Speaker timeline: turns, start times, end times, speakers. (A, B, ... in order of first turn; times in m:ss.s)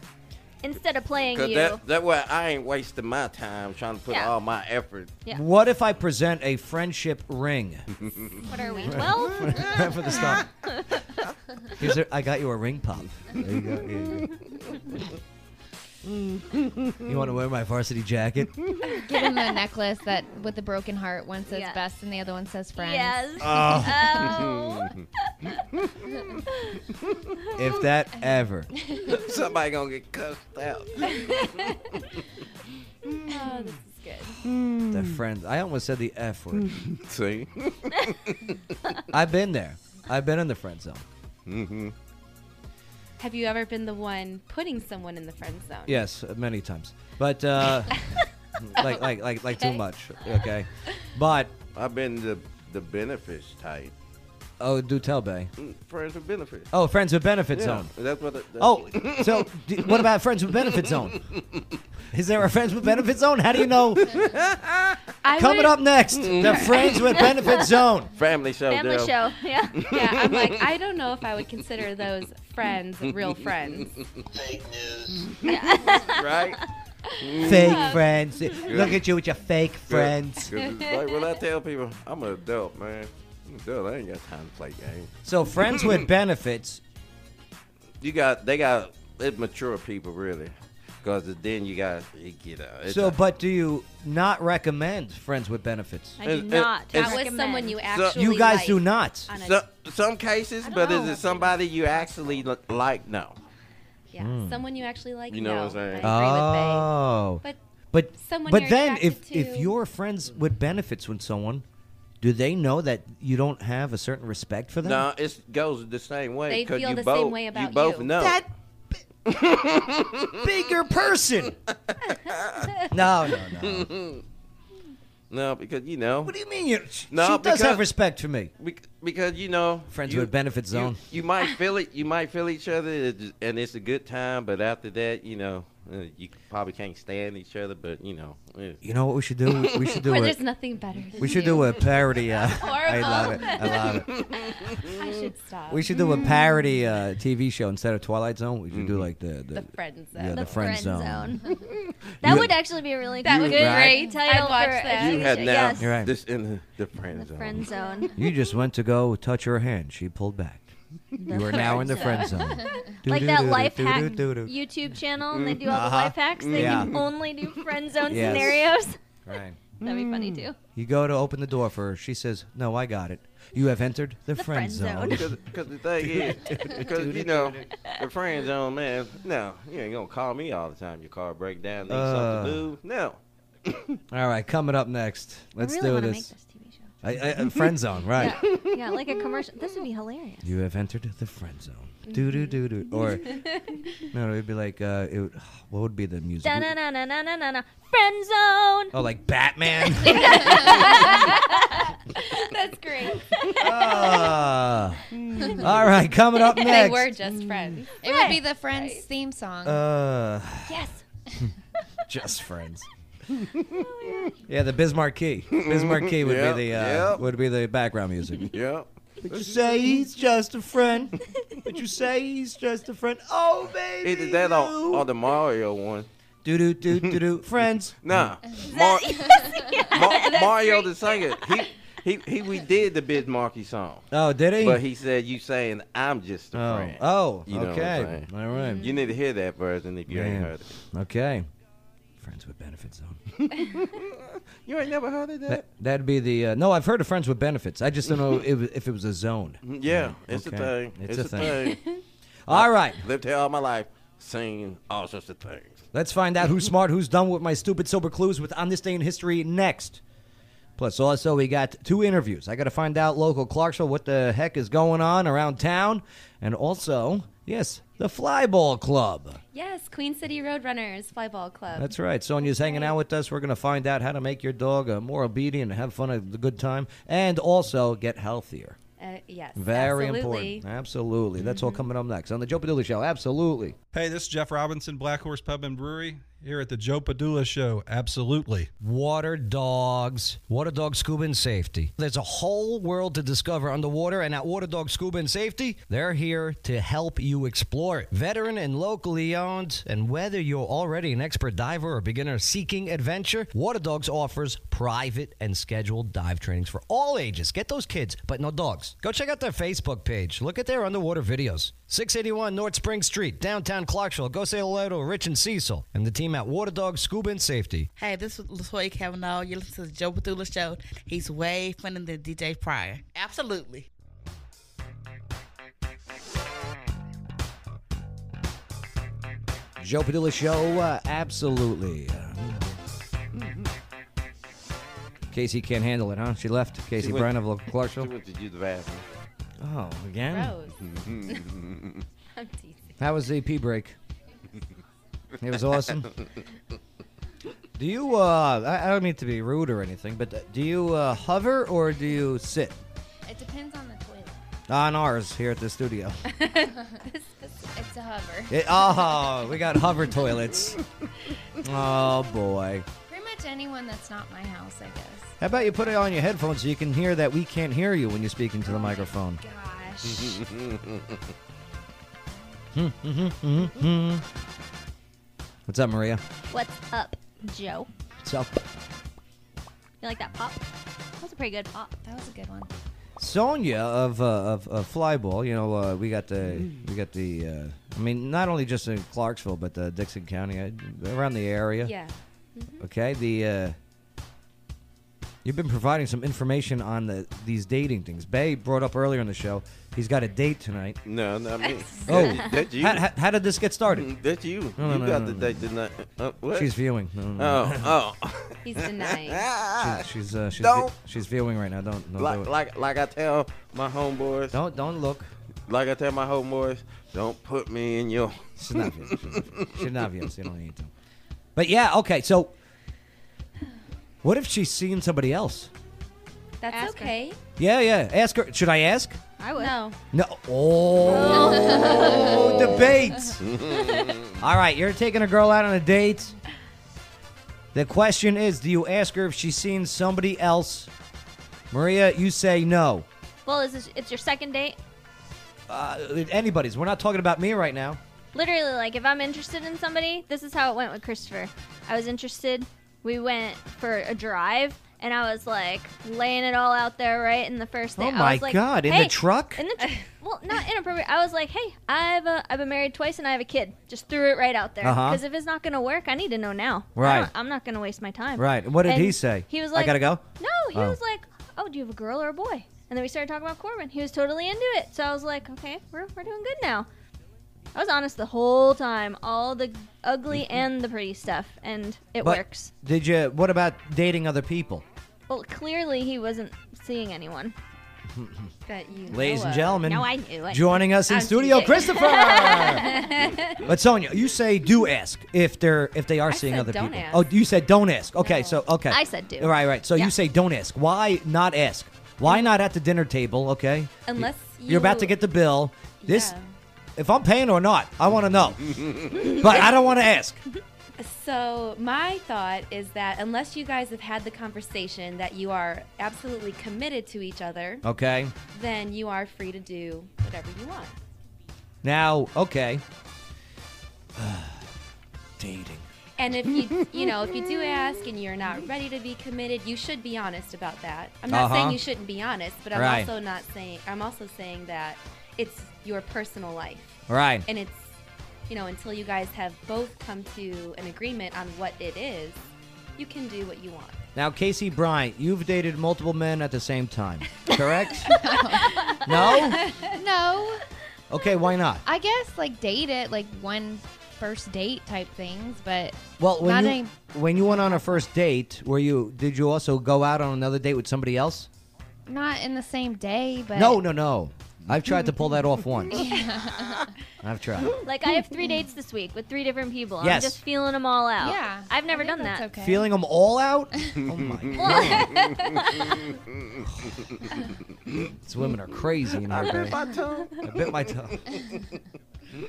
0:00.6-0:01.8 A
0:01.3-0:05.2 B
0:04.1-0:04.4 A
0:05.3-0:07.9 C
0:08.0-0:08.4 B
0:08.5-0:11.2 A
0:08.9-0:10.5 C
0:11.8-0:14.3 C
0:13.3-0:14.8 B
0:16.2-0:17.0 B
0:17.0-0:18.5 C
0:19.0-0:23.5 D
0:21.5-0:21.8 A
0:22.8-0:25.6 A
0:23.4-0:24.2 C
0:24.2-0:25.0 B
0:25.8-0:26.4 B
0:27.6-0:28.7 C
0:29.1-0:32.0 B
0:33.3-0:34.4 E
0:34.4-0:35.2 B
0:34.9-0:36.7 C
0:36.6-0:38.8 B
0:39.1-0:41.0 C
0:41.5-0:41.9 B
0:43.2-0:46.0 E
0:45.9-0:51.5 C
0:48.8-0:49.8 E
0:51.8-0:53.9 B
0:54.6-0:55.5 C
0:55.6-0:56.7 B
0:56.7-0:57.9 C
0:57.5-1:01.8 B
0:58.6-1:01.2 C
1:02.1-1:04.3 C
1:04.1-1:05.0 B
1:05.2-1:07.4 E
1:05.4-1:08.1 C
1:06.2-1:07.3 B
1:08.2-1:10.6 B
1:08.7-1:09.8 A
1:09.8-1:14.0 E
1:15.0-1:16.6 B
1:15.4-1:16.2 A
1:17.2-1:18.0 B
1:17.3-1:18.9 E
1:17.4-1:20.5 C
1:18.6-1:19.0 B
1:19.9-1:26.0 B
1:20.6-1:21.3 E
1:25.2-1:26.8 C
1:28.0-1:33.2 B
1:32.9-1:36.2 C
1:36.2-1:37.8 A
1:36.2-1:37.2 B
1:36.9-1:39.6 E
1:37.8-1:38.2 B
1:38.1-1:39.3 C
1:39.3-1:43.4 B
1:40.6-1:42.1 E
1:40.9-1:41.1 A
1:44.1-1:46.9 E
1:44.2-1:44.6 C
1:45.3-1:46.2 B
1:46.0-1:51.6 C
1:48.2-1:49.7 E
1:52.2-1:55.1 C
1:54.8-1:58.4 B
1:56.5-1:58.1 E
1:58.2-1:59.0 C
1:59.3-2:00.5 B
2:00.4-2:01.6 C
2:01.9-2:02.9 B
2:02.9-2:03.9 C
2:03.6-2:04.2 B
2:05.3-2:06.3 B
2:06.2-2:08.5 C
2:07.1-2:07.8 B
2:08.6-2:18.8 B
2:09.9-2:11.0 C
2:18.8-2:20.4 C
2:19.5-2:20.0 B
2:20.0-2:24.2 E
2:21.2-2:24.1 C
2:23.8-2:25.2 B
2:24.8-2:25.9 E
2:25.7-2:31.4 C
2:28.7-2:29.1 B
2:29.5-2:30.6 E
2:30.3-2:31.6 A
2:31.7-2:32.5 B
2:32.2-2:36.0 A
2:32.2-2:32.6 C
2:33.2-2:35.6 E
2:33.3-2:33.6 B
2:33.5-2:34.0 C
2:35.0-2:37.7 B
2:35.8-2:36.1 C
2:37.2-2:38.1 A
2:38.2-2:40.7 C
2:41.2-2:49.0 A
2:41.3-2:44.5 C
2:45.3-2:47.1 B
2:45.6-2:47.0 C
2:48.1-2:48.6 C
2:49.3-2:49.6 C
2:49.8-2:50.5 B
2:49.8-2:50.6 A
2:50.8-2:55.3 C
2:54.4-2:55.3 A
2:55.1-3:04.0 B
2:56.0-2:57.7 C
3:01.9-3:02.7 C
3:04.1-3:06.3 C
3:05.6-3:06.9 A
3:07.0-3:08.4 C
3:08.1-3:10.5 A
3:10.4-3:13.4 C
3:12.1-3:12.5 E
3:13.3-3:13.8 E
3:14.1-3:16.7 C
3:16.4-3:19.0 A
3:18.9-3:20.8 C
3:20.1-3:24.4 E
3:20.2-3:21.4 A
3:23.6-3:27.1 C
3:25.2-3:25.6 B
3:26.4-3:27.9 E
3:28.0-3:28.4 A
3:28.0-3:29.8 D
3:28.7-3:29.0 E
3:29.6-3:30.8 C
3:32.1-3:32.9 C
3:33.7-3:34.4 A
3:34.5-3:38.5 C
3:35.5-3:37.2 B
3:38.4-3:39.9 B
3:39.2-3:45.1 C
3:44.0-3:46.1 B
3:46.4-3:48.3 C
3:48.0-3:54.1 B
3:48.6-3:51.5 A
3:54.1-3:54.8 C
3:54.6-3:58.3 B
3:56.5-3:58.9 C
3:58.8-4:00.8 B
4:00.1-4:01.5 C
4:02.2-4:03.2 C
4:03.4-4:05.6 B
4:05.5-4:11.8 C
4:09.6-4:11.8 B
4:12.5-4:13.0 C
4:12.5-4:15.9 B
4:15.9-4:20.0 C
4:20.8-4:29.4 C
4:29.5-4:31.9 E
4:31.8-4:38.8 C
4:32.4-4:32.9 E
4:39.0-4:40.6 E
4:39.6-4:43.8 C
4:41.4-4:41.9 E
4:43.9-4:48.7 F
4:48.8-5:17.9 C
5:18.0-5:23.9 G
5:29.8-5:32.7 C
5:35.3-5:38.1 C
5:37.0-5:39.0 B
5:39.6-5:40.6 C
5:40.3-5:41.5 E
5:40.8-5:42.0 B
5:42.3-5:42.9 E
5:43.0-5:44.0 C
5:45.4-5:46.1 C
5:47.8-5:52.8 C
5:53.3-5:54.4 D
5:54.7-5:56.3 C
5:56.3-5:57.5 E
5:56.8-5:57.0 D
5:57.7-5:58.6 D
5:58.5-6:00.8 C
6:01.6-6:02.9 C
6:03.1-6:05.9 D
6:05.4-6:09.4 C
6:08.7-6:10.4 D
6:10.0-6:11.2 B
6:12.7-6:14.2 C
6:15.7-6:16.2 C
6:16.5-6:17.9 A
6:18.2-6:18.6 C
6:20.0-6:20.6 A
6:21.2-6:22.0 A
6:22.0-6:22.7 D
6:23.2-6:31.9 C
6:31.8-6:32.8 E
6:32.8-6:33.8 C
6:35.4-6:41.0 C
6:41.0-6:43.0 B
6:42.1-6:44.1 C
6:43.9-6:46.7 B
6:44.8-6:45.6 C
6:46.5-6:48.0 C
6:47.4-6:50.0 B
6:48.6-6:49.5 E
6:49.8-6:52.5 C
6:50.6-6:50.9 B
6:52.2-6:54.6 B
6:54.5-6:55.3 C
6:55.7-6:59.8 B
6:58.6-7:00.9 C
7:01.6-7:02.5 C
7:04.2-7:05.7 C
7:06.6-7:07.4 E
7:06.7-7:07.1 A
7:07.6-7:09.2 C
7:09.4-7:09.8 A
7:09.6-7:10.0 E
7:10.1-7:13.5 C
7:11.0-7:12.8 A
7:13.4-7:14.4 B
7:14.4-7:16.4 C
7:17.7-7:20.9 C
7:21.7-7:23.1 C
7:23.5-7:24.8 A
7:25.7-7:28.0 C
7:28.3-7:56.9 A
7:38.0-7:39.6 C
7:44.8-7:45.2 C
7:47.0-7:47.3 C
7:48.4-7:51.0 C
7:57.8-8:02.7 A
8:02.2-8:04.8 C
8:05.3-8:07.6 A
8:08.1-8:08.5 C
8:08.7-8:09.8 E
8:09.1-8:24.0 C
8:09.8-8:10.8 A
8:11.1-8:13.6 E
8:11.7-8:13.2 A
8:16.3-8:17.3 E
8:18.2-8:18.6 E
8:18.9-8:20.1 A
8:24.1-8:25.2 E
8:24.7-8:26.3 C
8:26.0-8:26.4 E
8:27.0-8:30.4 C
8:31.0-8:37.8 E
8:37.8-8:38.3 C
8:38.5-8:41.0 E
8:41.8-8:42.8 C
8:44.2-8:44.6 C
8:45.4-8:45.9 C
8:46.2-8:57.9 E
8:51.3-8:51.8 C
8:52.7-8:53.1 C
8:57.1-8:57.4 C
8:58.5-9:04.0 E
9:04.2-9:08.1 C
9:08.0-9:09.0 D
9:09.0-9:09.7 C
9:09.4-9:09.8 E
9:09.8-9:10.6 D
9:11.1-9:11.8 C
9:11.8-9:18.0 D
9:16.2-9:21.5 C
9:22.1-9:23.8 D
9:23.6-9:26.2 C
9:25.9-9:26.9 D
9:27.2-9:27.8 C
9:27.8-9:32.5 A
9:30.0-9:30.4 C
9:31.2-9:32.9 D
9:32.6-9:35.2 C
9:34.4-9:37.3 B
9:34.6-9:35.7 A
9:38.2-9:39.8 C
9:39.2-9:41.6 B
9:40.4-9:41.2 C